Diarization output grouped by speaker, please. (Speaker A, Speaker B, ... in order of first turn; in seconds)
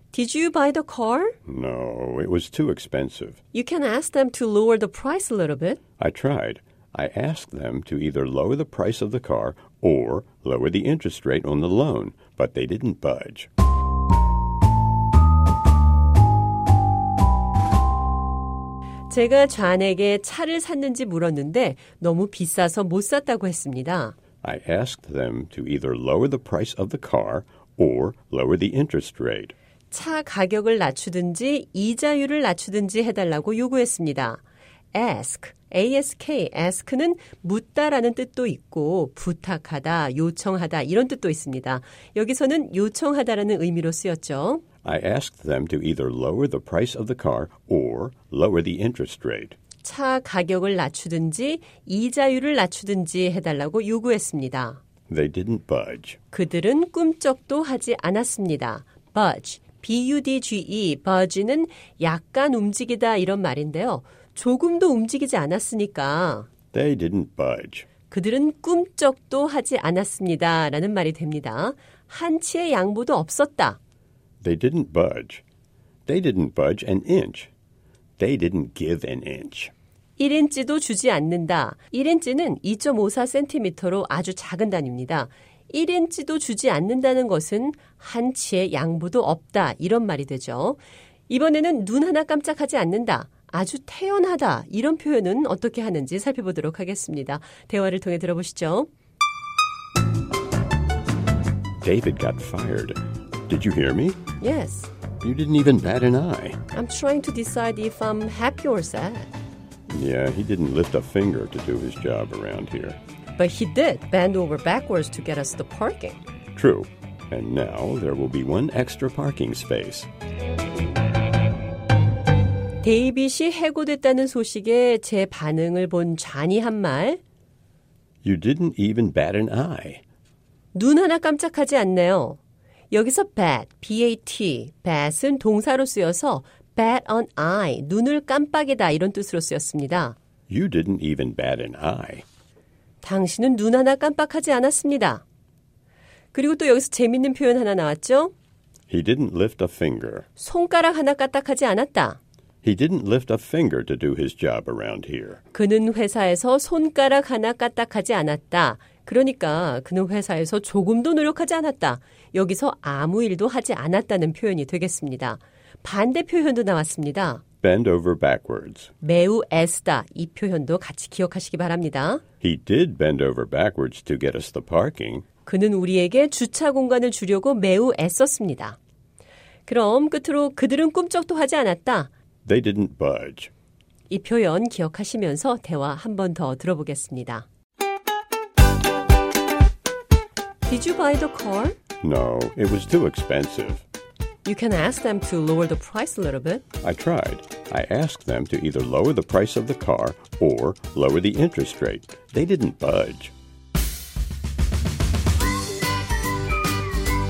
Speaker A: 0.1-1.4, 3.5-5.8, 19.1-24.1, 29.9-34.4, 34.9-44.6, 49.8-54.8, 56.3-66.5, 68.1-73.8, 80.2-98.9, 104.4-104.9, 106.7-109.3, 113.4-116.2, 122.8-127.2, 130.7-132.4, 132.9-140.2, 143.0-145.2, 146.3-148.3, 150.4-152.2, 155.5-167.4, 169.0-172.2, 175.4-178.8, 179.7-182.1, 184.1-187.5, 190.7-191.8, 194.4-196.6
Speaker B: 1.5-3.4, 6.0-13.5, 24.4-29.6, 44.8-49.6, 55.1-56.2, 66.7-67.9, 74.4-75.4, 76.1-77.5, 78.2-79.7, 101.8-104.2, 105.2-106.6, 109.9-113.0, 116.5-120.1, 128.2-130.0, 140.5-142.2, 148.9-150.3, 152.6-155.4, 167.6-168.9, 172.4-175.3, 182.4-183.5, 192.0-193.8, 196.8-203.3